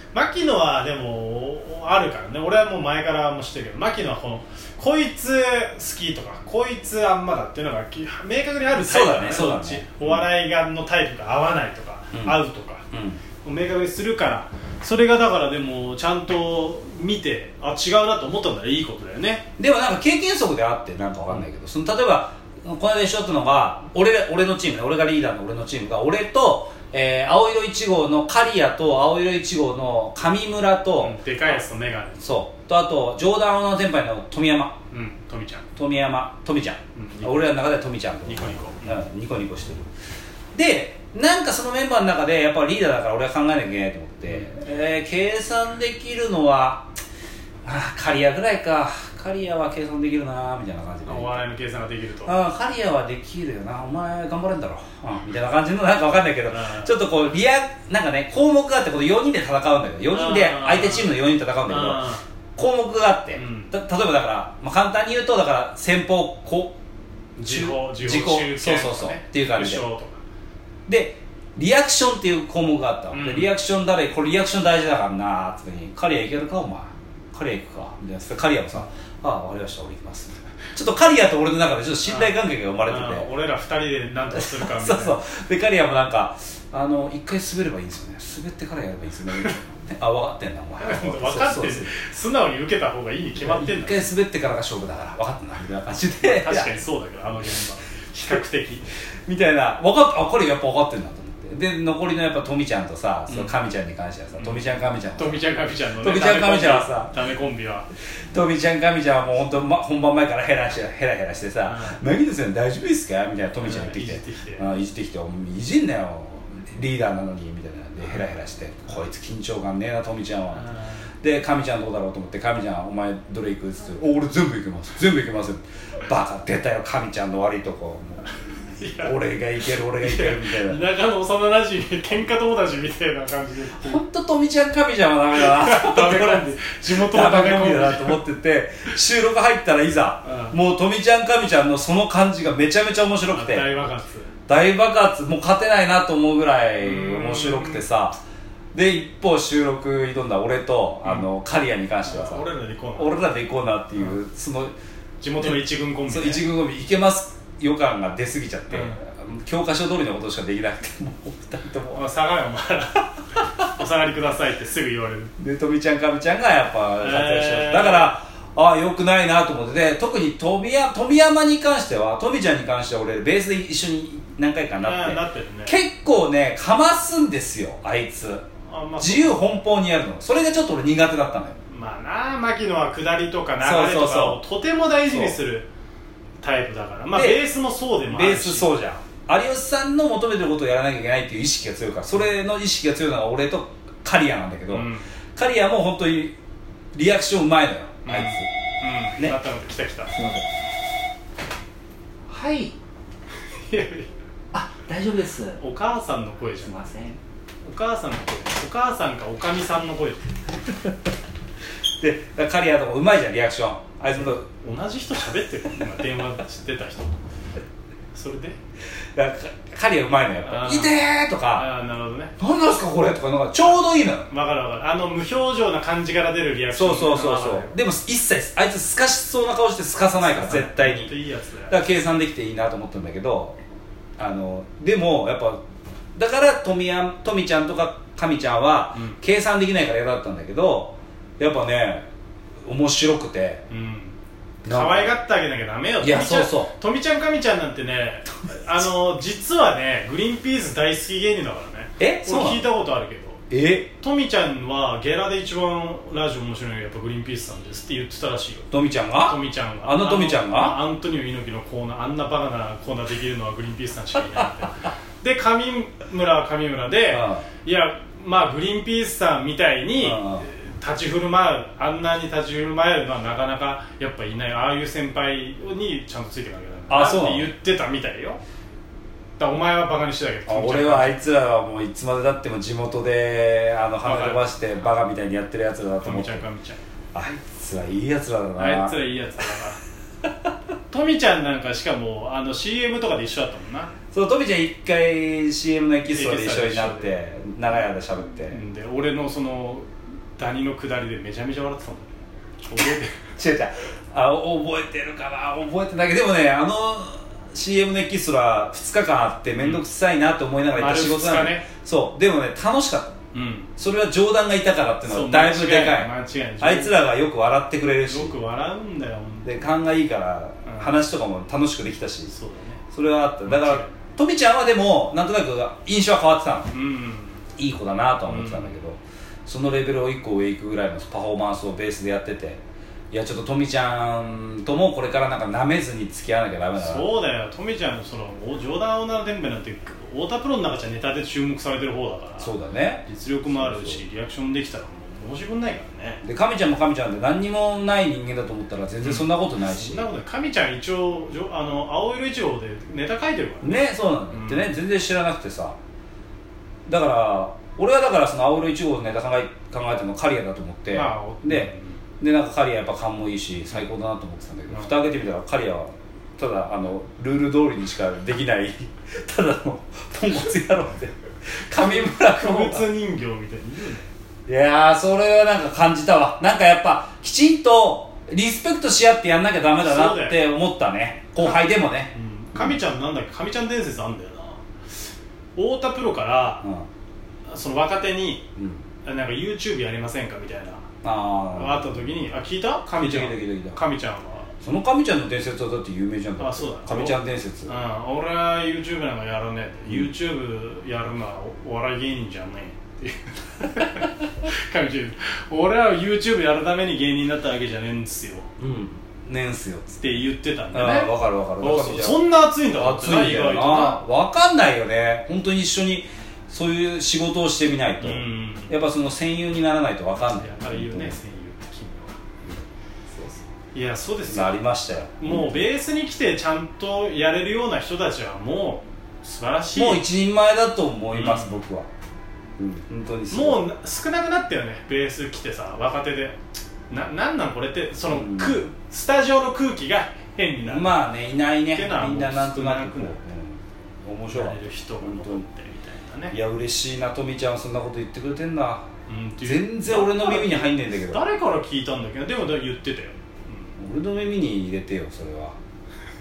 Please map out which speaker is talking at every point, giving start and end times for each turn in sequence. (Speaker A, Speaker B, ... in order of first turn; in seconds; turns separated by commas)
Speaker A: 0.1-12.9, Speaker B: 8.8-10.2, Speaker B: 12.1-12.4, Speaker B: 12.9-13.2, Speaker A: 13.4-19.4, Speaker B: 19.6-31.2, Speaker A: 31.0-32.2, Speaker B: 32.2-34.8, Speaker A: 34.9-35.7, Speaker B: 35.8-39.9, Speaker A: 37.0-37.5, Speaker A: 38.2-39.0, Speaker B: 40.5-46.9, Speaker B: 47.6-51.4, Speaker A: 51.1-52.4, Speaker B: 52.3-66.8, Speaker A: 56.5-56.9, Speaker A: 60.1-61.1, Speaker A: 61.7-62.2, Speaker A: 63.4-63.7, Speaker A: 67.4-70.2, Speaker B: 67.4-69.9, Speaker B: 70.9-83.3, Speaker A: 73.1-73.5, Speaker A: 82.1-85.2, Speaker B: 84.3-91.9, Speaker A: 90.8-94.1, Speaker B: 93.4-96.8, Speaker A: 96.2-98.9, Speaker B: 99.3-105.4, Speaker A: 103.3-103.5, Speaker A: 104.4-107.9, Speaker B: 106.0-107.1, Speaker B: 108.3-120.7, Speaker A: 111.7-112.0, Speaker A: 113.6-114.7, Speaker A: 120.5-121.1, Speaker B: 121.2-128.4, Speaker A: 128.8-129.2, Speaker B: 129.0-130.8, Speaker A: 130.0-134.0, Speaker B: 133.8-143.7, Speaker A: 135.3-138.2, Speaker A: 140.2-140.6, Speaker A: 143.3-144.3, Speaker B: 144.5-148.2, Speaker A: 146.8-147.8, Speaker B: 148.7-154.8, Speaker A: 152.0-153.2, Speaker A: 155.2-156.4, Speaker B: 155.4-162.0, Speaker A: 158.7-159.0, Speaker A: 161.9-165.3, Speaker B: 165.4-178.5, Speaker A: 167.0-168.2, Speaker A: 174.8-175.8, Speaker A: 178.7-179.6, Speaker B: 179.0-181.6, Speaker A: 181.7-185.7, Speaker B: 183.6-184.4, Speaker B: 185.1-185.4, Speaker A: 186.4-188.7, Speaker B: 187.1-187.4, Speaker B: 188.1-196.4, Speaker A: 194.7-195.1, Speaker B: 196.9-198.5, Speaker A: 198.1-200.2, Speaker B: 200.1-200.4, Speaker B: 202.3-202.8, Speaker A: 203.6-204.1, Speaker B: 204.5-205.6, Speaker A: 205.6-206.9, Speaker B: 206.7-207.2, Speaker A: 207.6-210.2, Speaker B: 212.0-214.5, Speaker A: 214.2-217.1, Speaker A: 218.1-218.6, Speaker B: 219.2-221.7, Speaker A: 220.4-221.0, Speaker A: 221.5-222.3, Speaker B: 222.4-224.3, Speaker A: 223.6-227.8, Speaker B: 226.7-231.1, Speaker A: 230.2-231.8, Speaker B: 231.7-233.6, Speaker B: 234.2-235.6, Speaker B: 236.2-242.1, Speaker B: 242.7-243.6, Speaker A: 243.7-244.1, Speaker B: 244.6-245.1, Speaker A: 244.7-253.4, Speaker B: 246.0-246.7, Speaker B: 252.0-252.7, Speaker B: 253.5-253.9, Speaker A: 254.0-258.7, Speaker B: 258.7-260.8, Speaker A: 259.2-278.4, Speaker B: 267.1-267.5, Speaker B: 270.0-270.5, Speaker B: 276.9-277.5, Speaker A: 279.4-281.2, Speaker B: 280.5-286.4, Speaker A: 284.0-284.4, Speaker A: 286.0-286.8, Speaker B: 287.1-289.0, Speaker A: 288.6-289.8, Speaker A: 290.9-293.9, Speaker B: 294.1-298.6, Speaker A: 296.1-297.1, Speaker A: 298.5-299.9, Speaker A: 300.4-303.2, Speaker B: 303.4-313.2, Speaker A: 310.8-311.7, Speaker A: 313.3-313.7, Speaker B: 313.8-318.4, Speaker A: 315.1-317.0, Speaker A: 318.0-319.6, Speaker B: 319.4-322.4, Speaker A: 320.6-321.0, Speaker A: 322.3-322.8, Speaker B: 322.9-326.7, Speaker A: 323.4-324.0, Speaker A: 326.7-327.4, Speaker B: 327.6-337.2, Speaker A: 328.3-328.7, Speaker A: 336.8-342.5, Speaker B: 342.4-344.0, Speaker A: 343.1-346.2, Speaker B: 346.2-350.1, Speaker A: 349.0-354.7, Speaker B: 353.6-355.8, Speaker B: 356.9-372.9, Speaker A: 360.9-362.0, Speaker A: 371.8-374.0, Speaker B: 374.5-382.8, Speaker A: 379.8-380.4, Speaker A: 381.4-384.6, Speaker A: 385.6-386.7, Speaker A: 387.5-388.4, Speaker B: 388.6-388.8, Speaker A: 389.0-390.9, Speaker B: 391.0-392.1, Speaker A: 391.5-394.5, Speaker B: 392.9-393.8, Speaker B: 394.6-397.8, Speaker A: 396.4-408.5, Speaker B: 408.6-410.1, Speaker A: 410.0-414.0, Speaker B: 410.7-421.2, Speaker A: 418.0-418.7, Speaker A: 420.3-422.2, Speaker B: 423.1-423.4, Speaker A: 423.7-430.1, Speaker B: 424.2-425.3, Speaker B: 429.7-431.9, Speaker A: 431.1-431.6, Speaker B: 432.6-433.7, Speaker A: 433.3-436.4, Speaker A: 436.9-440.9, Speaker B: 438.1-438.6, Speaker B: 440.6-445.4, Speaker A: 441.7-443.2, Speaker A: 444.3-446.4, Speaker B: 446.3-448.9, Speaker A: 449.1-453.7, Speaker B: 449.4-451.2, Speaker B: 453.8-455.6